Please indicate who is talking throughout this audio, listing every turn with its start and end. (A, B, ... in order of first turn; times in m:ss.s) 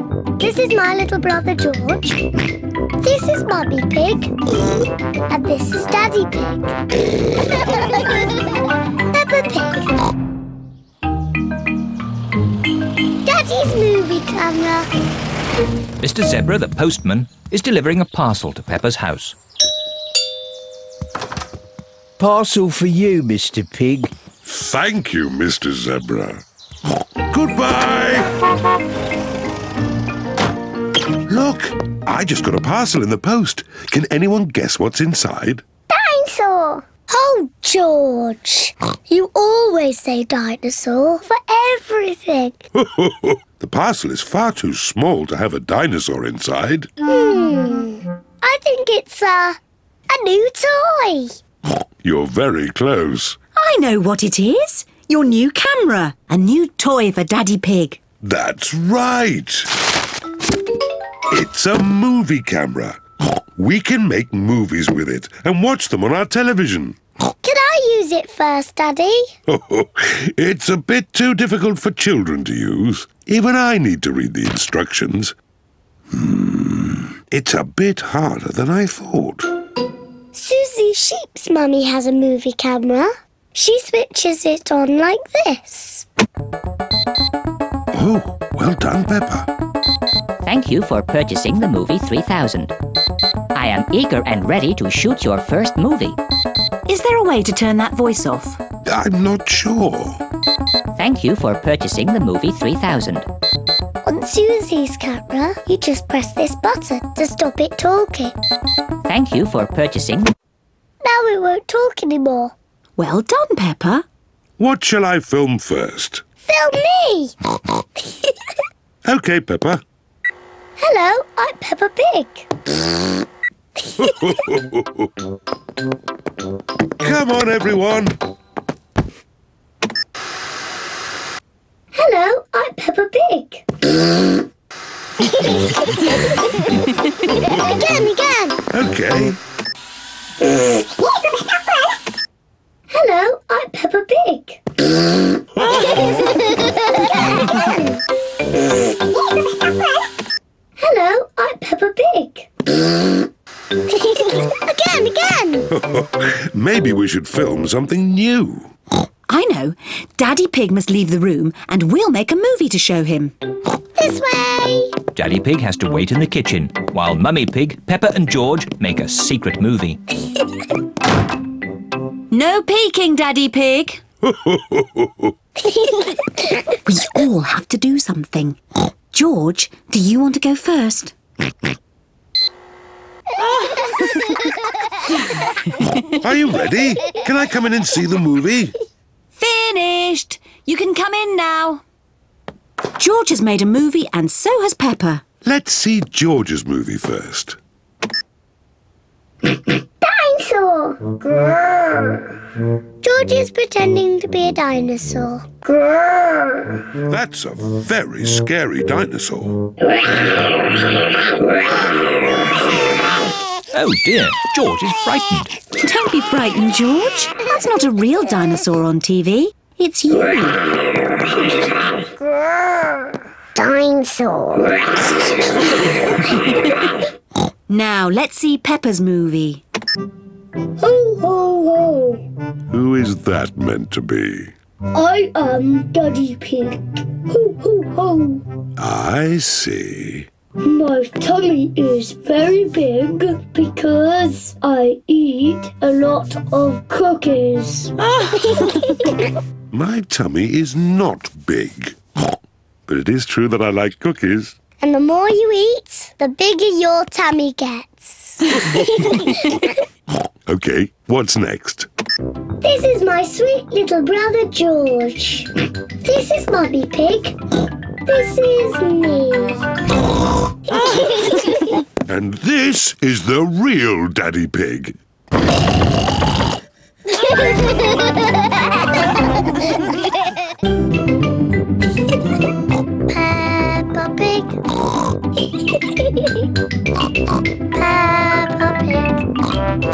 0:00.4-0:02.3 A
0:03.0-0:04.3 A
0:05.3-0:06.7 A
0:09.1-0:09.9 A
0:13.2-0:14.9 A
0:16.0-0:19.4 B
0:22.2-0:24.1 C
0:24.4-0:26.4 D
0:27.3-0:28.4 D
0:31.3-0:35.6 D
0:35.9-0:42.6 A
0:42.8-0:46.9 D
0:47.1-0:49.6 A
0:50.1-0:51.4 A
0:52.0-0:53.4 D
0:53.6-0:58.0 E
0:58.2-0:59.7 D
1:01.3-1:03.0 D
1:03.6-1:07.0 D
1:07.4-1:09.2 A
1:09.5-1:15.3 D
1:16.2-1:19.5 D
1:20.3-1:26.1 A
1:27.9-1:29.5 D
1:30.4-1:32.7 F
1:33.6-1:36.2 F
1:36.9-1:38.6 E
1:38.8-1:40.2 D
1:41.0-1:43.3 F
1:44.0-1:48.4 A
1:49.1-1:50.3 F
1:51.0-1:52.6 A
1:53.0-1:54.0 E
1:54.6-1:56.2 D
1:56.4-1:57.4 A
1:59.0-1:59.8 D
2:00.8-2:02.5 A
2:04.0-2:05.1 D
2:07.0-2:08.2 D
2:12.0-2:13.6 A
2:15.2-2:16.1 A
2:17.2-2:18.6 A
2:18.7-2:19.4 D
2:22.9-2:24.6 A
2:25.6-2:26.2 D
2:27.4-2:27.9 A
2:30.8-2:32.5 A
2:33.9-2:35.7 A
2:35.7-2:38.7 D
2:39.3-2:43.3 E
2:44.0-2:45.0 A
2:45.2-2:50.0 B
2:52.3-2:54.0 E
2:54.2-2:55.3 D
2:55.7-2:56.2 A
2:56.8-2:58.6 E
2:59.1-3:01.1 E
3:03.4-3:06.2 E
3:06.1-3:08.8 D
3:09.4-3:11.8 E
3:13.0-3:15.2 E
3:15.4-3:17.6 D
3:20.0-3:21.6 A
3:23.0-3:25.5 A
3:27.1-3:29.6 D
3:33.7-3:35.5 B
3:35.8-3:40.7 E
3:43.6-3:44.9 A
3:47.7-3:49.6 E
3:50.8-3:52.2 A
3:52.7-3:54.5 D
3:54.9-3:58.4 A
3:58.8-4:00.3 D
4:00.6-4:09.1 A
4:08.1-4:08.9 E
4:09.7-4:12.0 D
4:12.9-4:14.6 D
4:14.8-4:19.7 A
4:20.5-4:21.9 D
4:22.6-4:25.5 A
4:26.0-4:27.4 A
4:28.0-4:29.6 A
4:32.1-4:35.0 D
4:37.2-4:37.7 A
4:43.1-4:44.6 A
4:45.9-4:46.3 A
4:47.7-4:49.2 A